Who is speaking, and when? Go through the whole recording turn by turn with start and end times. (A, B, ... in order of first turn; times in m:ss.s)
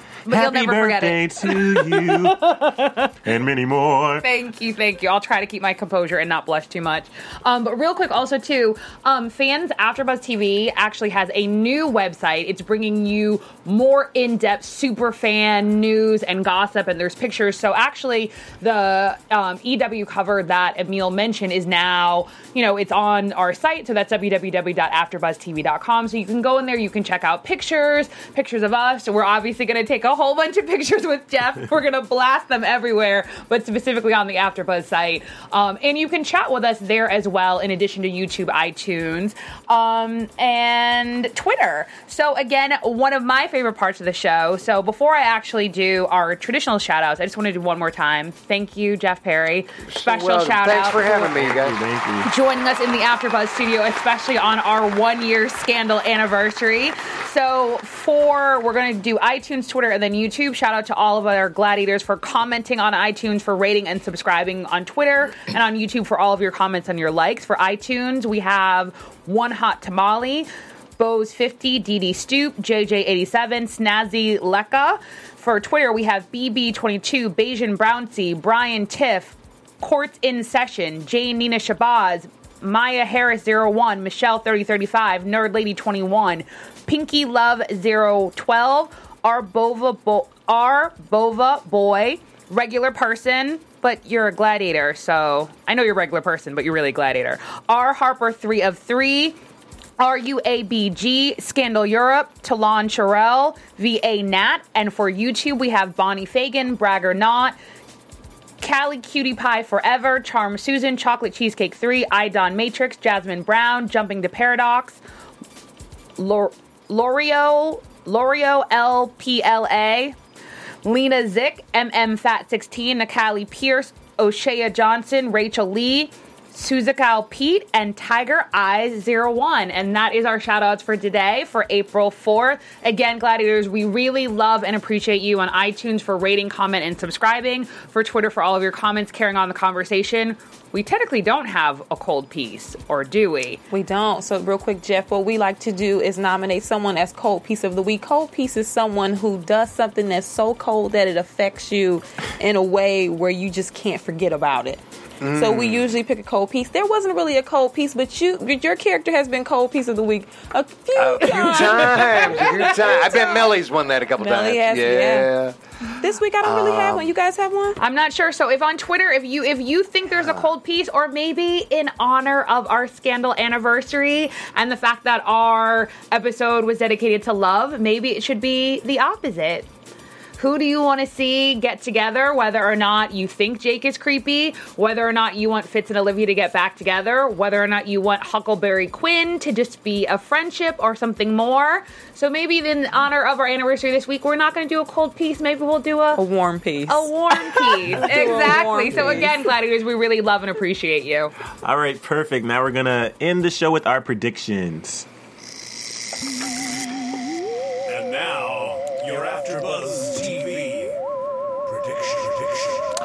0:00.2-0:03.1 A
0:00.3-0:02.4 B
0:03.2-0:04.3 B
0:04.2-0:51.4 A
0:49.9-0:51.8 C
0:51.1-0:52.3 B
0:52.2-1:39.4 A
1:40.0-1:47.6 A
1:48.6-1:55.0 A
1:56.2-2:00.2 A
2:00.8-2:23.6 A
2:23.7-2:43.5 D
2:35.2-2:35.9 C
2:41.0-2:45.6 C
2:44.2-2:45.3 D
2:46.0-2:47.8 D
2:46.4-2:47.1 C
2:47.8-2:59.7 A
3:00.4-3:16.2 A
3:16.1-3:19.5 D
3:16.9-3:21.3 A
3:21.6-3:25.1 B
3:27.9-3:31.0 E
3:31.7-3:32.8 E